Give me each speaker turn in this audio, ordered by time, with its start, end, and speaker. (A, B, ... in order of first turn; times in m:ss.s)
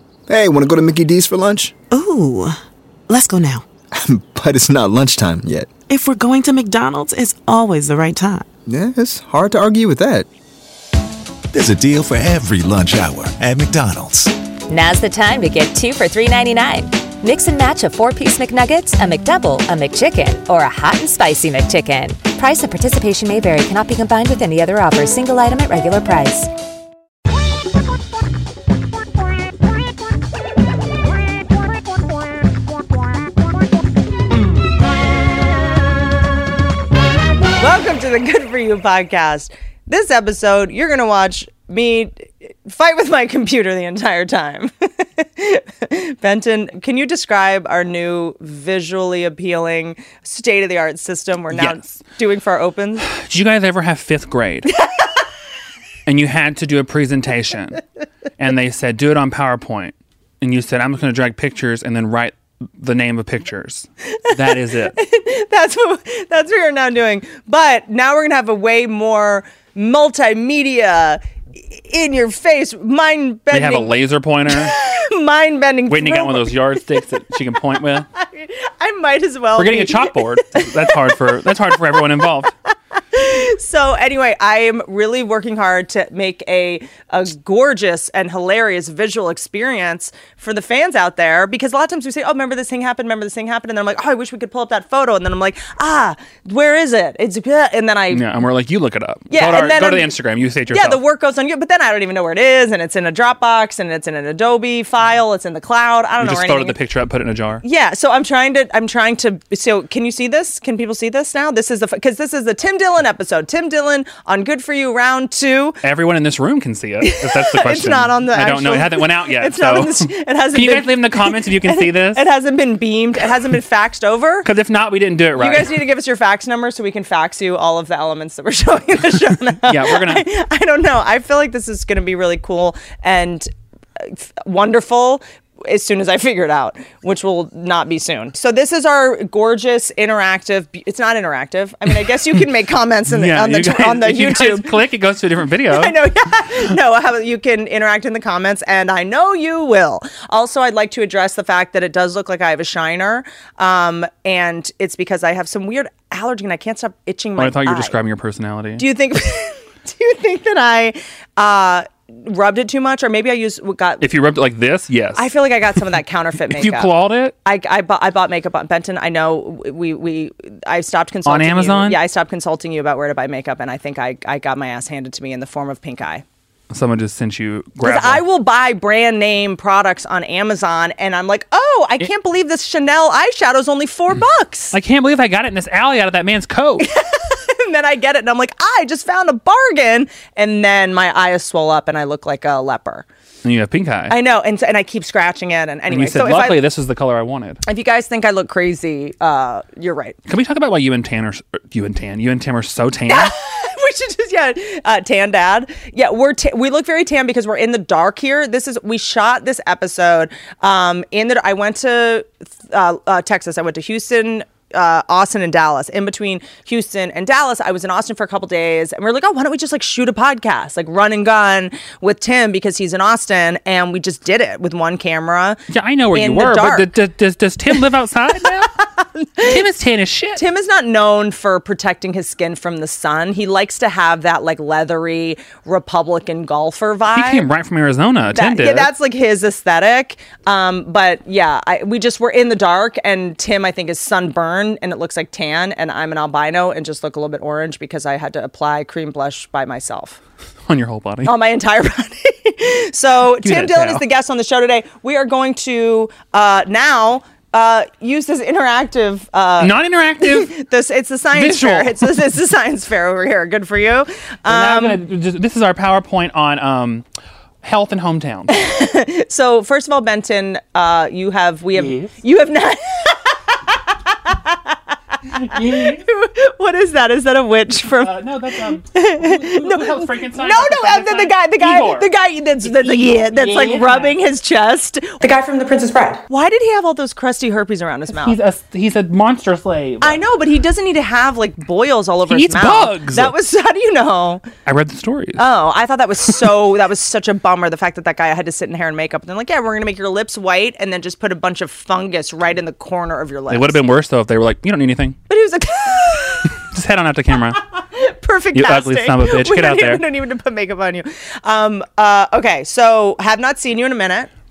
0:00.3-0:01.7 A
0:01.9-0:03.6 B
0:03.9-0:05.7 A
0:05.9-0:08.4 B
0:08.7-0:10.3 A
0:11.5-0:14.3 C
0:14.7-0:26.5 D
0:37.6-0:53.1 E
0:51.5-0:51.8 F
0:53.0-0:54.7 F
0:54.8-0:55.0 E
0:56.0-0:57.8 F
0:58.4-1:05.0 F
1:04.3-1:13.9 E
1:13.5-1:14.8 F
1:14.5-1:17.0 E
1:15.9-1:18.0 F
1:18.1-1:21.1 E
1:19.6-1:22.5 F
1:23.1-1:38.4 E
1:38.1-1:41.0 F
1:39.3-1:40.2 E
1:40.7-1:46.8 E
1:46.2-1:47.6 F
1:47.6-1:55.8 E
1:55.8-2:02.2 F
1:57.0-2:04.5 E
2:04.4-2:05.8 F
2:05.4-2:24.8 E
2:09.6-2:10.2 F
2:23.1-2:26.0 F
2:25.7-2:38.0 E
2:37.4-2:38.8 F
2:38.8-2:44.1 E
2:44.0-2:45.3 F
2:45.1-2:46.9 E
2:46.5-2:47.3 F
2:47.4-2:56.2 E
2:51.2-2:52.0 F
2:56.7-2:58.2 F
2:57.8-3:04.8 E
3:04.7-3:06.9 F
3:06.8-3:13.0 E
3:13.4-3:14.2 F
3:14.1-3:16.6 E
3:15.9-3:17.6 F
3:17.6-3:20.2 E
3:20.3-3:23.3 F
3:23.1-3:45.6 E
3:45.7-3:48.7 F
3:46.1-3:46.9 E
3:48.8-3:49.6 E
3:49.4-3:50.4 F
3:50.4-3:57.4 E
3:57.1-3:58.9 F
3:58.3-4:10.2 E
4:10.7-4:11.3 F
4:11.2-4:25.0 E
4:13.4-4:14.0 F
4:19.6-4:20.5 F
4:21.3-4:22.2 F
4:24.5-4:27.0 F
4:27.6-4:28.6 F
4:28.5-4:34.7 E
4:31.7-4:32.1 F
4:35.3-4:36.0 F
4:35.3-4:38.2 E
4:37.8-4:42.1 F
4:38.8-4:48.4 E
4:42.6-4:44.2 F
4:48.1-4:50.2 F
4:50.0-4:54.4 E
4:52.3-4:53.3 F
4:54.6-4:55.4 F
4:55.4-5:03.8 E
5:03.5-5:05.2 F
5:05.3-5:06.5 E
5:06.5-5:07.6 F
5:07.8-5:14.3 E
5:08.5-5:10.0 F